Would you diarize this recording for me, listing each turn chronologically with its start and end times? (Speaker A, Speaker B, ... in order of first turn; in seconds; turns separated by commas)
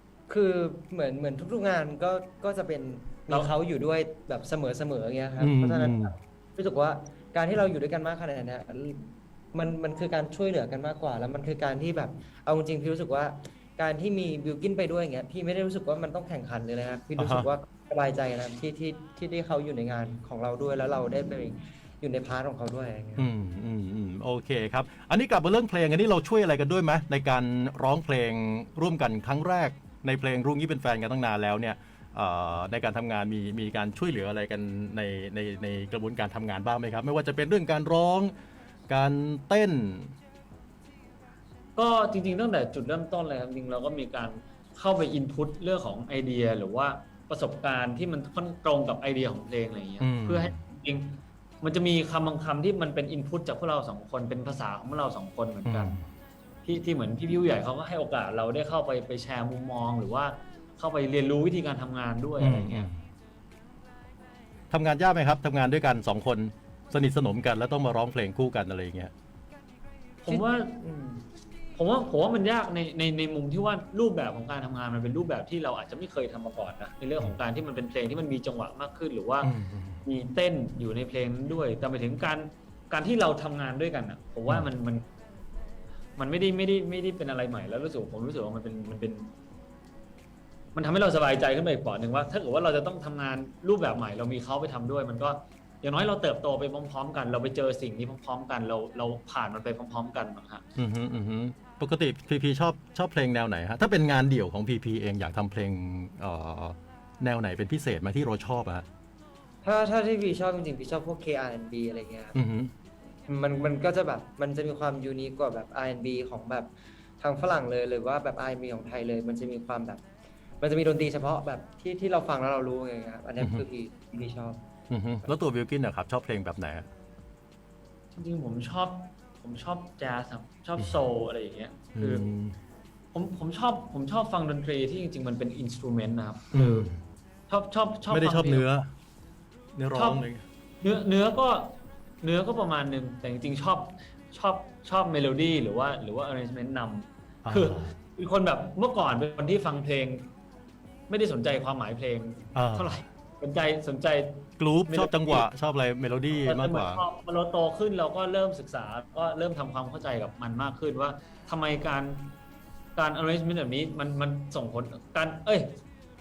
Speaker A: 0.3-23.3, Speaker B: 5.4-6.1, Speaker B: 17.2-17.5, Speaker B: 23.2-38.3, Speaker B: 38.9-40.1, Speaker C: 41.8-56.0, Speaker B: 50.0-50.5, Speaker B: 55.6-56.0, Speaker C: 56.6-62.9, Speaker B: 62.4-63.0, Speaker B: 64.7-69.1, Speaker C: 70.2-70.8, Speaker A: 70.3-71.2, Speaker C: 71.7-79.5, Speaker B: 79.4-80.0, Speaker C: 80.0-85.0, Speaker C: 86.2-89.3, Speaker C: 90.7-100.6, Speaker B: 100.8-108.8, Speaker A: 109.6-112.3, Speaker B: 112.3-112.7, Speaker A: 113.3-120.0, Speaker A: 120.6-124.6, Speaker B: 124.9-126.9, Speaker C: 128.1-132.2, Speaker B: 131.9-132.6, Speaker C: 133.1-136.9, Speaker B: 136.5-137.0, Speaker C: 137.5-138.7, Speaker B: 138.1-138.9, Speaker B: 139.7-140.4, Speaker C: 139.9-140.3, Speaker C: 140.8-150.3, Speaker B: 147.4-147.8, Speaker C: 151.1-155.5, Speaker B: 152.5-152.9, Speaker B: 154.6-157.0, Speaker C: 156.3-162.3, Speaker C: 162.9-165.7